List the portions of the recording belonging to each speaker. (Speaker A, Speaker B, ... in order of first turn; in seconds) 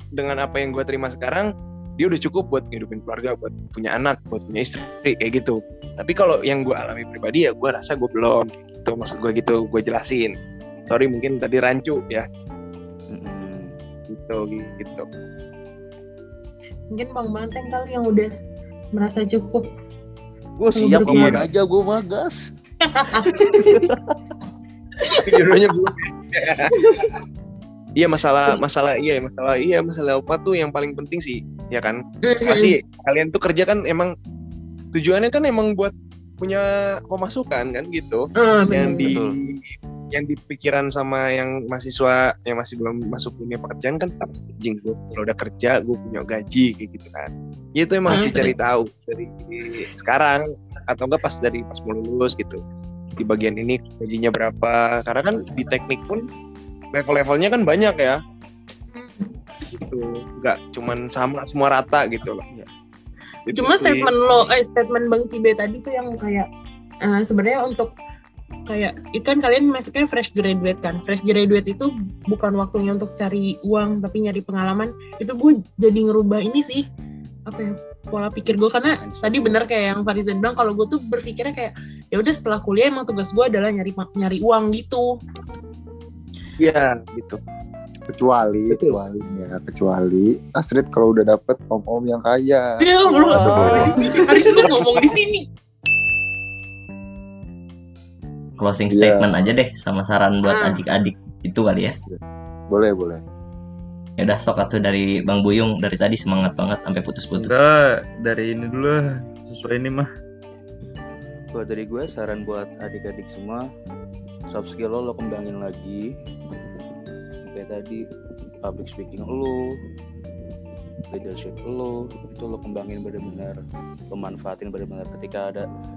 Speaker A: 0.1-10.3, 10.9-12.3, 14.1-15.1, 25.2-26.7, 28.0-34.1, 34.9-39.3, 40.1-52.6, 53.2-56.2, 56.9-58.2, 59.7-62.4, 63.5-64.1, 86.6-87.4, 93.6-95.0
Speaker B: 13.1-13.7, 20.6-22.5, 23.3-23.9, 39.0-39.4, 79.0-79.6, 93.3-94.2, 111.5-113.6, 114.5-116.0, 117.5-118.0, 118.6-119.5, 121.1-123.5, 124.1-125.6
Speaker C: 16.9-18.3, 18.9-19.6, 20.7-21.4, 22.8-23.6, 25.0-25.4, 26.7-27.1, 32.2-32.8, 38.4-39.2, 48.1-48.4, 58.9-59.3, 63.5-66.5, 67.0-67.9, 68.7-76.8, 77.5-85.1, 92.8-95.5, 100.5-100.8
Speaker D: 21.0-21.4, 48.1-48.5, 88.1-94.2, 98.9-99.3, 102.1-103.2
Speaker E: 98.6-102.0, 104.2-107.6
Speaker F: 107.4-110.1